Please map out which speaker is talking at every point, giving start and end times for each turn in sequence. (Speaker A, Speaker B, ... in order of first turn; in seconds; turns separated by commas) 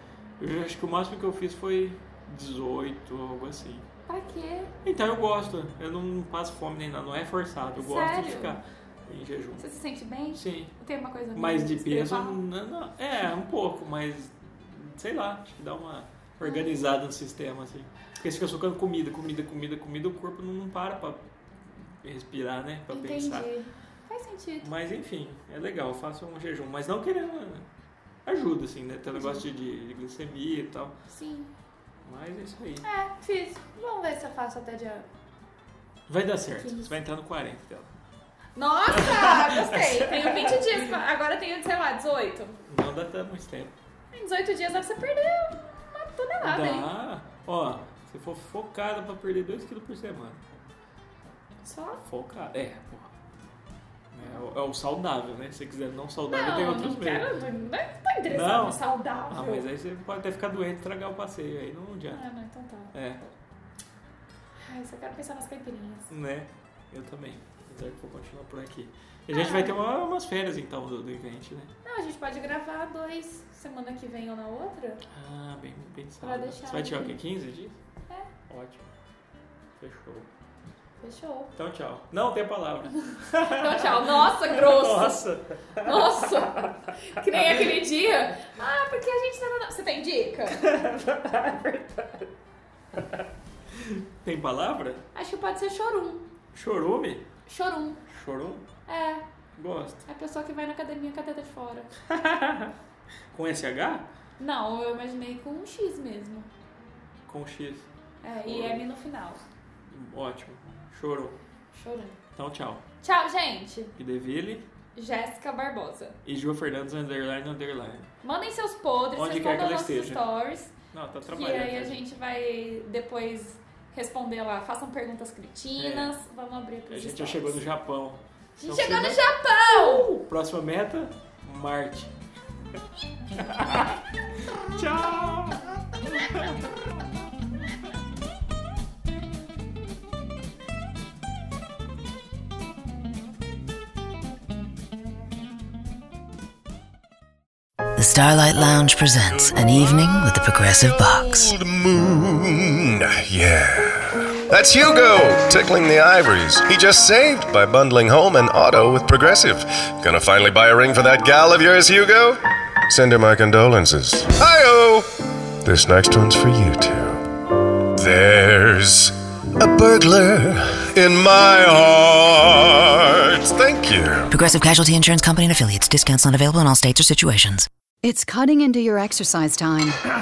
Speaker A: 0.4-3.9, Speaker B: 4.1-4.7, Speaker A: 4.8-9.6, Speaker B: 7.8-8.6, Speaker B: 9.6-12.4, Speaker A: 10.3-10.7, Speaker A: 11.3-21.2, Speaker B: 16.4-16.8, Speaker A: 22.0-23.5, Speaker B: 22.9-24.7, Speaker A: 24.6-27.6, Speaker A: 28.2-31.0, Speaker B: 29.1-29.4, Speaker B: 31.1-31.5, Speaker A: 32.0-32.8, Speaker B: 32.8-35.1, Speaker A: 36.1-37.9, Speaker B: 36.6-36.9, Speaker B: 38.5-42.6, Speaker A: 38.9-41.0, Speaker A: 42.7-43.7, Speaker B: 44.1-46.9, Speaker A: 46.4-50.4, Speaker B: 51.6-52.0, Speaker A: 52.0-53.1, Speaker A: 54.1-57.3, Speaker B: 56.3-59.6, Speaker A: 58.3-62.2, Speaker B: 62.1-62.9, Speaker A: 62.9-63.2, Speaker B: 64.6-66.1, Speaker A: 66.1-71.7, Speaker B: 69.3-69.8, Speaker B: 71.8-75.0, Speaker A: 75.1-77.8, Speaker B: 76.2-77.2, Speaker A: 78.5-78.9, Speaker A: 79.8-80.3, Speaker B: 81.0-81.5, Speaker A: 81.5-87.7, Speaker B: 83.0-85.2, Speaker B: 85.8-90.6, Speaker A: 90.5-92.3, Speaker A: 92.9-95.0, Speaker B: 95.1-96.2, Speaker A: 96.5-97.2, Speaker B: 97.5-98.0, Speaker A: 98.1-98.7, Speaker B: 98.9-99.2, Speaker A: 99.6-100.0, Speaker B: 100.0-101.9, Speaker A: 102.0-102.7, Speaker A: 103.3-104.1, Speaker B: 104.4-106.5, Speaker A: 107.3-107.9, Speaker B: 108.2-109.4, Speaker A: 108.4-108.8, Speaker A: 109.9-111.4, Speaker B: 111.7-112.2, Speaker A: 112.3-112.8, Speaker B: 113.0-113.9, Speaker A: 114.0-114.6, Speaker B: 115.0-116.2, Speaker A: 116.2-118.1, Speaker B: 118.2-120.7, Speaker A: 119.1-120.2, Speaker A: 120.9-122.0, Speaker B: 121.2-127.6, Speaker A: 125.8-126.1, Speaker A: 126.9-132.1, Speaker B: 128.6-130.1, Speaker A: 133.3-136.7, Speaker C: 148.0-151.5, Speaker D: 149.5-149.8, Speaker D: 151.3-165.1, Speaker D: 165.6-174.3, Speaker C: 174.3-177.7, Speaker E: 178.0-180.0